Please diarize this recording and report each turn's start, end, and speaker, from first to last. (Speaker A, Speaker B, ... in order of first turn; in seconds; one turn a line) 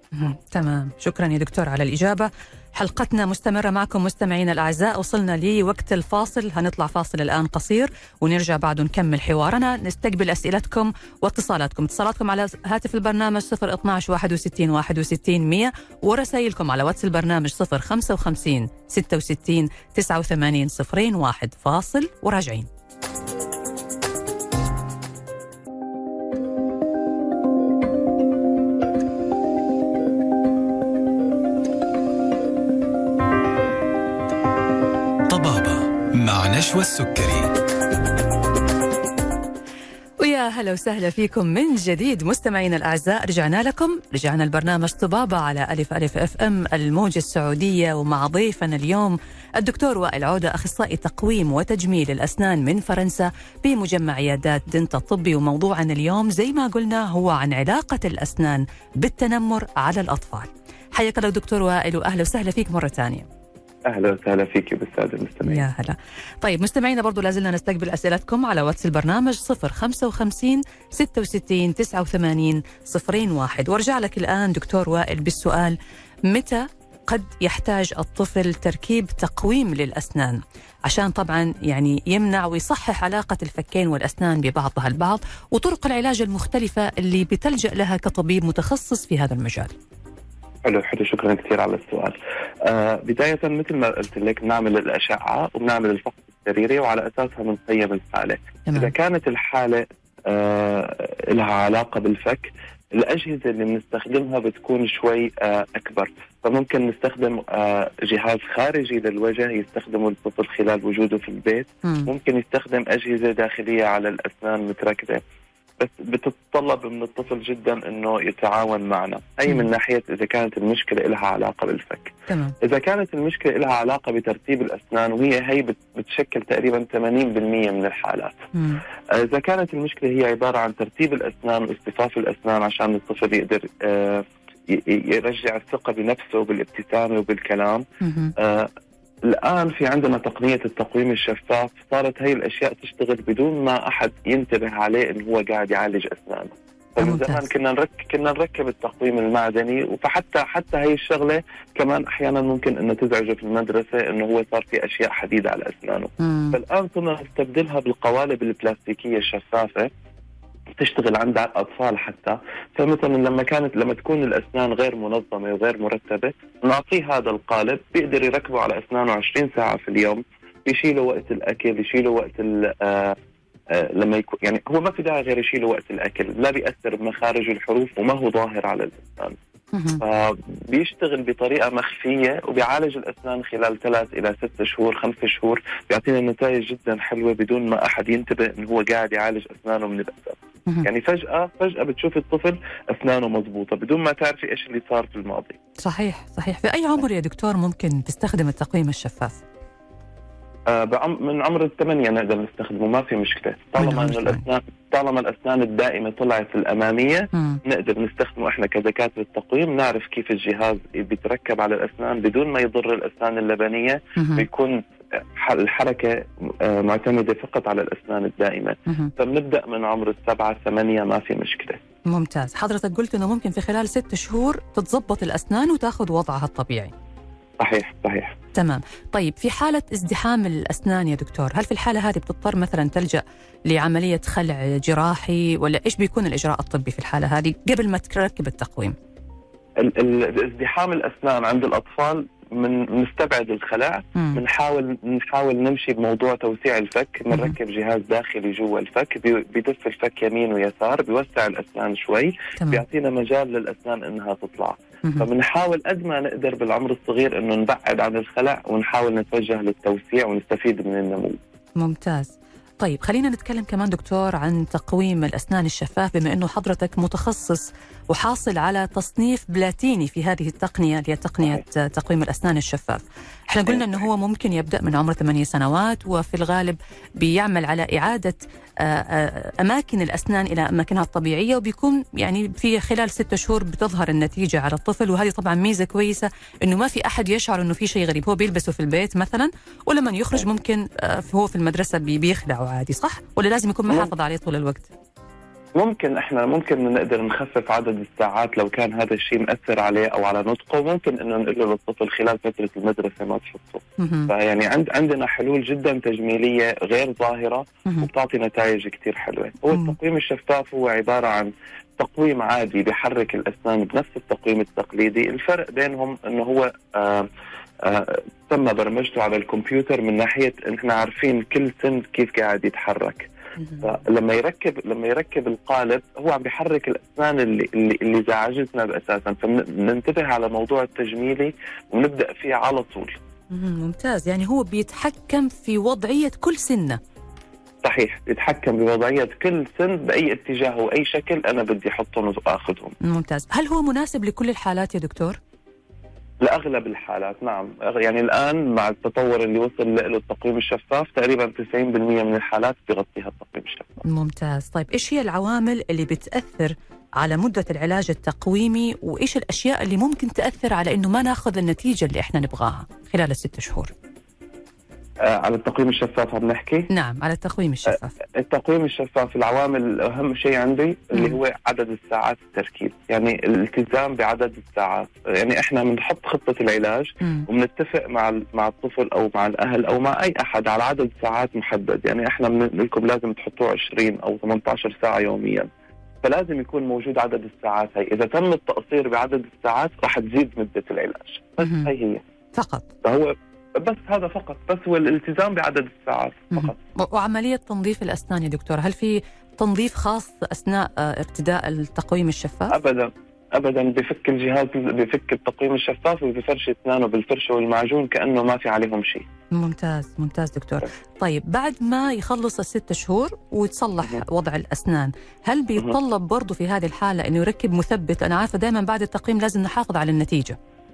Speaker A: 0.1-22.7
Speaker B: 35.3-37.5
Speaker A: 40.2-63.2
Speaker C: 63.9-65.6
Speaker A: 65.4-89.7
Speaker C: 90.6-115.2
Speaker A: 98.7-98.9
Speaker A: 111.8-112.1
Speaker C: 115.8-128.4
Speaker A: 122.3-122.5
Speaker A: 128.5-128.8
Speaker C: 129.1-137.8
Speaker A: 138.0-138.3
Speaker C: 138.4-138.7
Speaker C: 139.2-159.9
Speaker A: 147.0-147.4
Speaker A: 156.2-156.6
Speaker C: 160.7-173.2
Speaker C: 173.7-179.4
Speaker A: 179.7-180.0
Speaker C: 180.0-195.6
Speaker A: 195.8-199.4
Speaker C: 200.7-221.8
Speaker A: 203.8-204.4
Speaker A: 207.3-207.6
Speaker A: 214.2-214.4
Speaker A: 218.9-219.1
Speaker A: 222.1-226.9
Speaker C: 227.6-228.3
Speaker A: 228.5-238.9
Speaker C: 239.8-261.4
Speaker A: 244.1-244.4
Speaker A: 252.6-252.8
Speaker A: 261.8-294.9
Speaker C: 273.6-274.0
Speaker C: 295.8-317.3
Speaker A: 304.0-304.3
Speaker C: 317.8-333.2
Speaker A: 323.6-323.8
Speaker A: 333.5-337.0
Speaker C: 337.8-342.9
Speaker A: 343.0-345.4
Speaker C: 346.4-354.0
Speaker A: 354.0-363.9
Speaker C: 365.2-366.9
Speaker A: 366.9-368.1
Speaker C: 367.9-385.7
Speaker A: 371.1-371.4
Speaker A: 377.2-377.5
Speaker C: 386.2-392.2
Speaker A: 391.6-391.9
Speaker A: 392.5-392.9
Speaker C: 393.0-396.8
Speaker A: 396.5-402.7
Speaker C: 402.7-409.2
Speaker A: 409.5-420.6